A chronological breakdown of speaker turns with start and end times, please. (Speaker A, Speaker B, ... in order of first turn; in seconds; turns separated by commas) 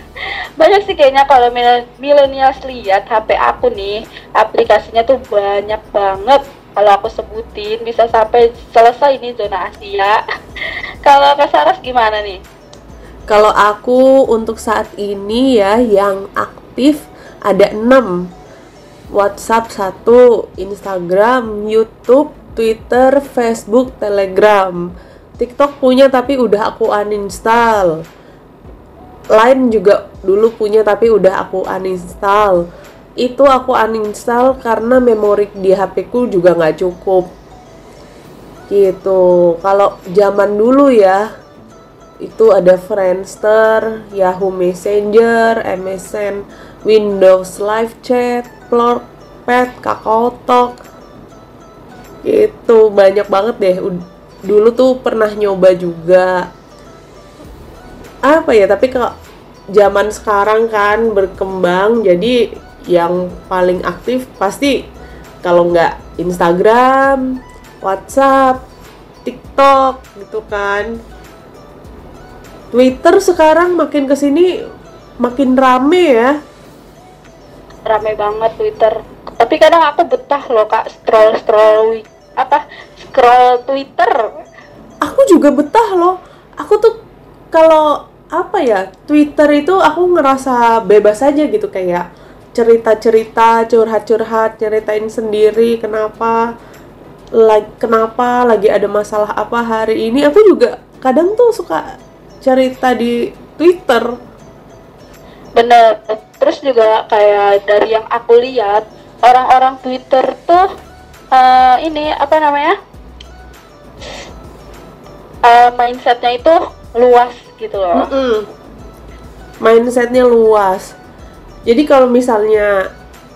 Speaker A: 0.6-10.2, Speaker A: 11.1-12.4, Speaker B: 13.3-18.1, Speaker B: 19.1-24.8, Speaker B: 25.4-28.0, Speaker B: 29.4-32.6, Speaker B: 33.2-37.3, Speaker B: 38.7-41.2, Speaker B: 42.2-50.8, Speaker B: 52.2-53.9, Speaker B: 54.5-56.5, Speaker B: 58.3-59.1, Speaker B: 59.8-62.3, Speaker B: 62.9-64.8, Speaker B: 65.4-67.3, Speaker B: 67.8-68.6, Speaker B: 69.2-70.9, Speaker B: 72.7-74.5, Speaker B: 75.2-76.3, Speaker A: 77.9-84.3, Speaker B: 85.0-87.0, Speaker B: 87.5-96.4, Speaker B: 97.4-101.8, Speaker B: 102.4-104.1, Speaker A: 105.6-110.7, Speaker A: 111.3-112.8, Speaker A: 115.5-118.1, Speaker B: 117.9-118.5, Speaker B: 119.6-120.9, Speaker B: 121.7-122.7